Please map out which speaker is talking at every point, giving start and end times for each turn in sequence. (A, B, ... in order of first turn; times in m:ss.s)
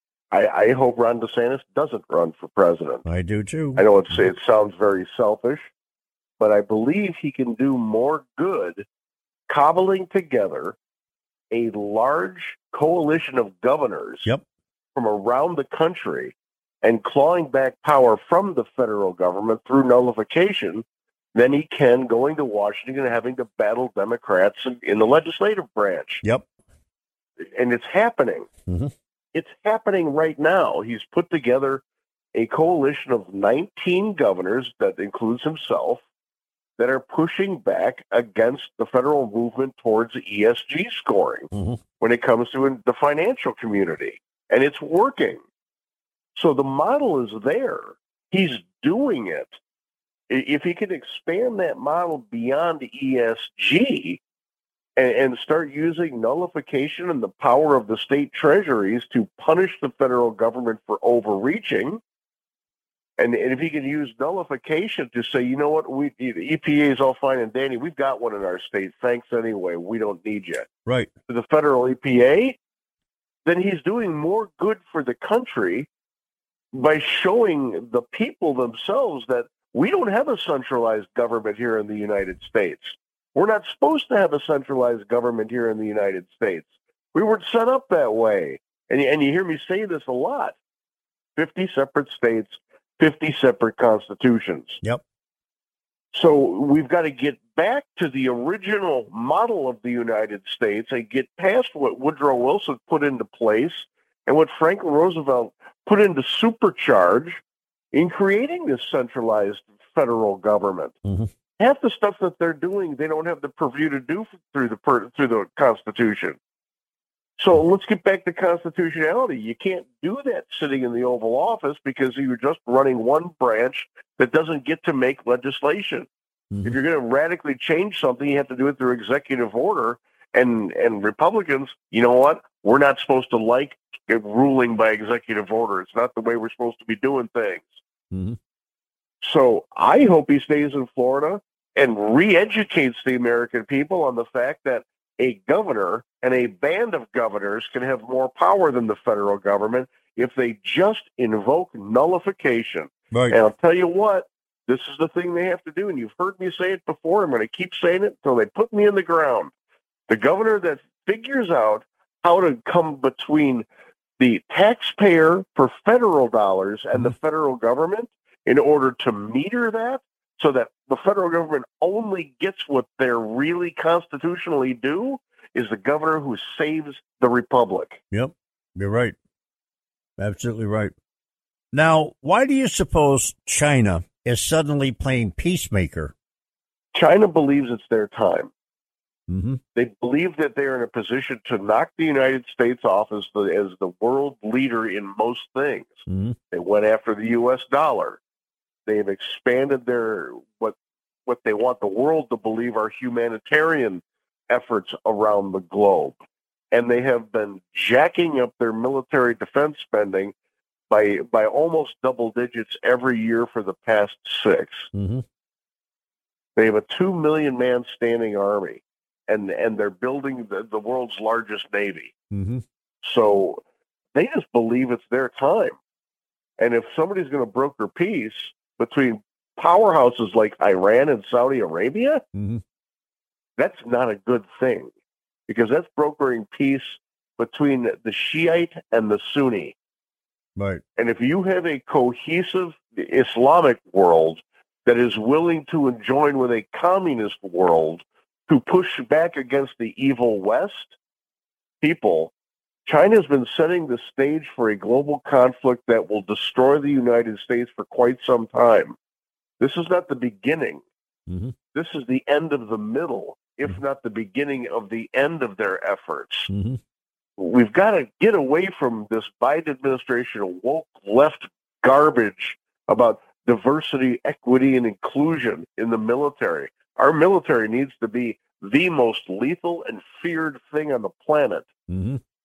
0:00.3-0:03.0 A
0:03.0-0:04.3 B
0:03.8-0:05.7 A
0:06.4-0:08.8 A
0:09.5-0:10.8 A
0:11.5-0:14.3 A
0:15.0-0:20.8 A
0:21.3-0:26.2 A
0:27.4-0:28.5 A
0:28.7-0:28.9 B
0:29.3-0:31.8 A
0:32.3-0:36.0 A
0:36.8-0:45.4 A
0:41.5-0:41.8 B
0:46.3-0:49.6 A
0:50.3-0:54.2 A
0:55.0-1:02.0 A
1:03.2-1:10.7 A
1:11.3-1:12.6 A
1:13.4-1:15.9 A
1:16.7-1:30.6 A
1:31.4-1:34.8 A
1:36.1-1:47.4 A
1:47.9-1:51.0 A
1:51.0-1:51.3 B
1:51.6-1:56.4 A
1:57.4-2:06.1 A
2:06.5-2:06.8 B
2:06.6-2:17.8 A
2:18.1-2:18.4 B
2:19.2-2:39.5 A
2:40.1-2:43.6 A
2:44.2-2:58.0 A
2:58.1-2:59.1 B
3:00.2-3:00.9 B
3:01.7-3:06.1 B
3:06.9-3:08.5 A
3:09.3-3:09.6 B
3:09.7-3:18.2 A
3:16.1-3:16.4 B
3:18.8-3:20.7 A
3:21.3-3:26.2 A
3:26.7-3:30.3 A
3:30.9-3:34.9 A
3:34.9-3:35.2 B
3:36.6-3:42.1 A
3:42.3-3:42.6 B
3:43.0-3:43.6 A
3:44.1-3:45.8 A
3:46.6-3:52.2 A
3:52.3-3:52.6 B
3:53.6-3:54.9 A
3:55.5-3:59.8 A
4:00.6-4:00.8 B
4:01.0-4:10.9 A
4:11.8-4:12.3 A
4:12.8-4:19.0 A
4:19.6-4:20.8 A
4:21.3-4:21.5 B
4:21.7-4:26.5 A
4:26.5-4:26.8 B
4:27.4-4:41.7 A
4:41.9-4:42.2 B